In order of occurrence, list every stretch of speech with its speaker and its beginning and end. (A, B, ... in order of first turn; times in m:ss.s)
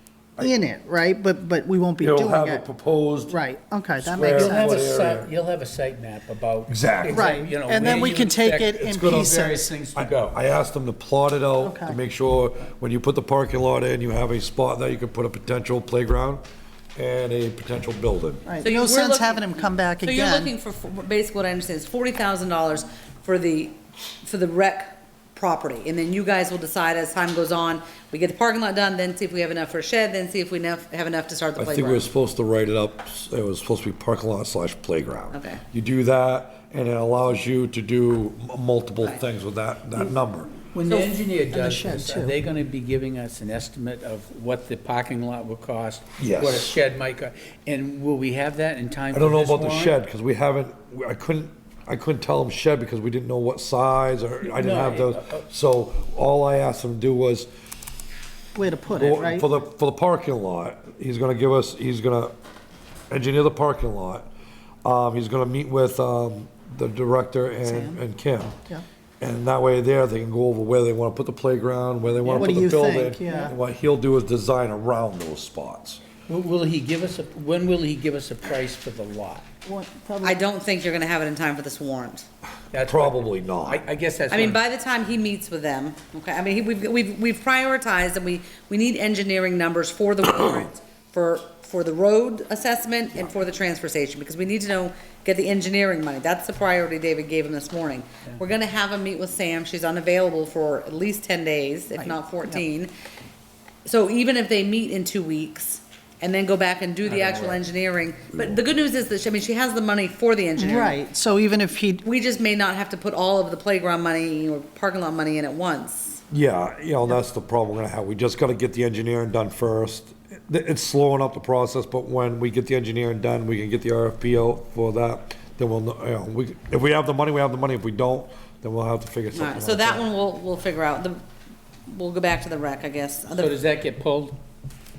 0:00.4-0:02.6 A
0:02.0-0:03.4 B
0:03.3-0:04.8 A
0:04.0-0:05.3 B
0:04.2-0:10.4 C
0:06.7-0:08.0 B
0:07.1-0:09.7 A
0:08.8-0:16.4 B
0:11.6-0:12.0 A
0:17.0-0:18.4 B
0:18.5-0:20.5 A
0:18.6-0:32.1 D
0:31.6-0:40.6 B
0:35.3-0:35.6 D
0:40.7-0:42.4 A
0:40.8-0:50.0 C
0:46.2-0:46.8 B
0:49.1-0:57.5 B
0:54.4-0:55.4 C
0:58.6-0:59.5 A
0:58.9-1:02.4 B
1:03.1-1:04.3 B
1:04.8-1:08.6 B
1:07.6-1:08.0 A
1:09.2-1:16.0 B
1:12.3-1:13.6 A
1:16.3-1:19.4 C
1:19.6-1:20.4 A
1:20.2-1:22.3 D
1:22.7-1:24.6 C
1:22.8-1:23.8 B
1:24.3-1:42.9 D
1:42.0-1:42.6 A
1:43.8-1:51.0 D
1:47.0-1:47.6 C
1:50.6-1:52.0 A
1:52.0-1:56.2 D
1:56.3-2:10.1 B
2:09.3-2:11.2 D
2:11.9-2:13.6 D
2:13.3-2:14.4 C